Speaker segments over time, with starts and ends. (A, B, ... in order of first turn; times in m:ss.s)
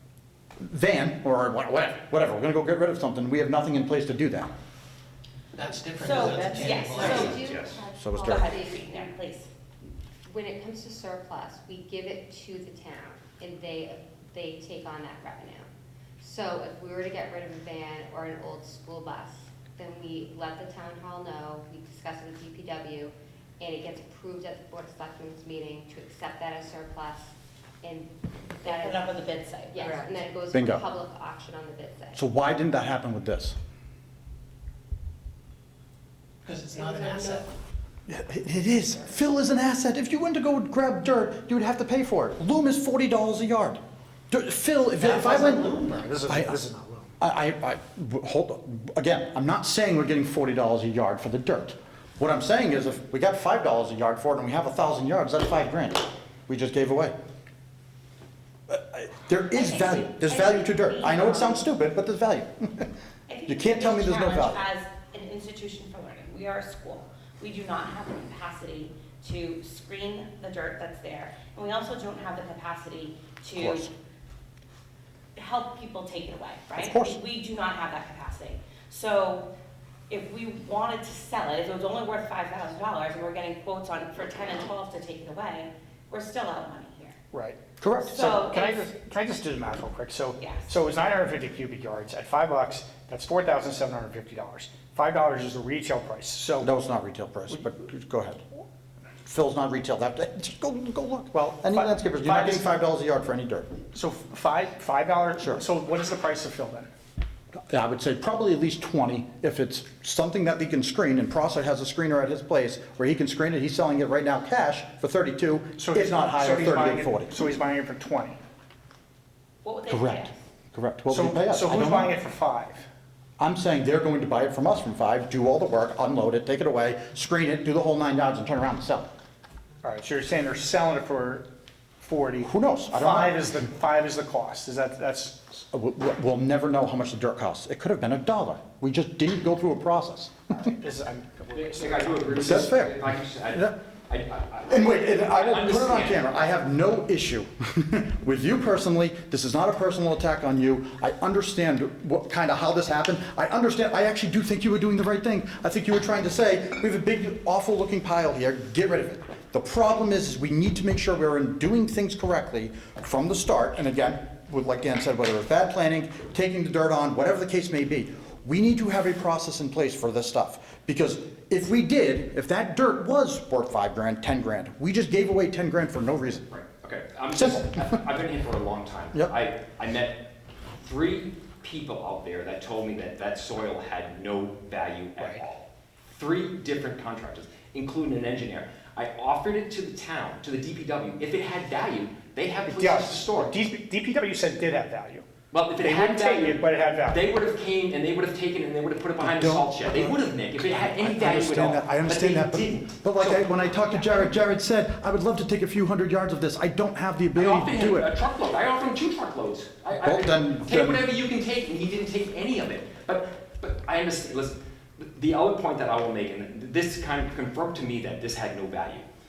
0:00.6-0:04.5 A
0:05.5-0:07.6 B
0:06.0-0:07.4 C
0:06.3-0:08.9 D
0:07.0-0:07.8 E
0:08.0-0:08.6 A
0:08.3-0:09.5 C
0:10.3-0:15.7 D
0:16.2-0:29.1 D
0:28.6-0:30.2 C
0:29.7-0:32.2 D
0:30.5-0:30.8 A
0:32.1-0:33.6 A
0:36.4-0:37.5 B
0:36.8-0:37.4 D
0:38.1-0:43.8 A
0:44.3-0:45.7 A
0:45.0-0:46.1 B
0:45.9-0:47.1 F
0:46.3-0:46.6 A
0:47.2-0:57.1 A
0:58.7-1:02.9 A
0:59.5-1:01.6 C
1:03.3-1:13.9 C
1:03.5-1:04.6 A
1:13.6-1:13.9 A
1:15.4-1:19.5 C
1:16.8-1:17.2 A
1:20.1-1:27.2 C
1:27.3-1:36.7 F
1:27.8-1:28.3 A
1:28.1-1:28.9 C
1:30.4-1:30.7 C
1:36.6-1:38.4 A
1:39.2-1:43.7 A
1:41.3-1:42.8 F
1:43.9-1:46.9 F
1:47.6-1:57.4 A
1:55.8-1:58.4 F
1:59.6-2:00.4 C
1:59.9-2:02.2 A
2:01.1-2:02.8 F
2:03.4-2:09.1 A
2:09.8-2:11.5 F
2:12.0-2:15.4 F
2:12.4-2:13.5 A
2:15.7-2:20.7 A
2:20.5-2:22.7 F
2:21.5-2:26.3 E
2:22.4-2:23.8 A
2:24.7-2:56.5 A
2:56.5-3:13.6 E
2:57.3-2:57.9 A
3:05.2-3:05.4 F
3:12.7-3:15.2 F
3:15.5-3:24.3 E
3:15.8-3:17.3 F
3:19.2-3:28.1 A
3:27.4-3:39.1 E
3:30.0-3:31.0 A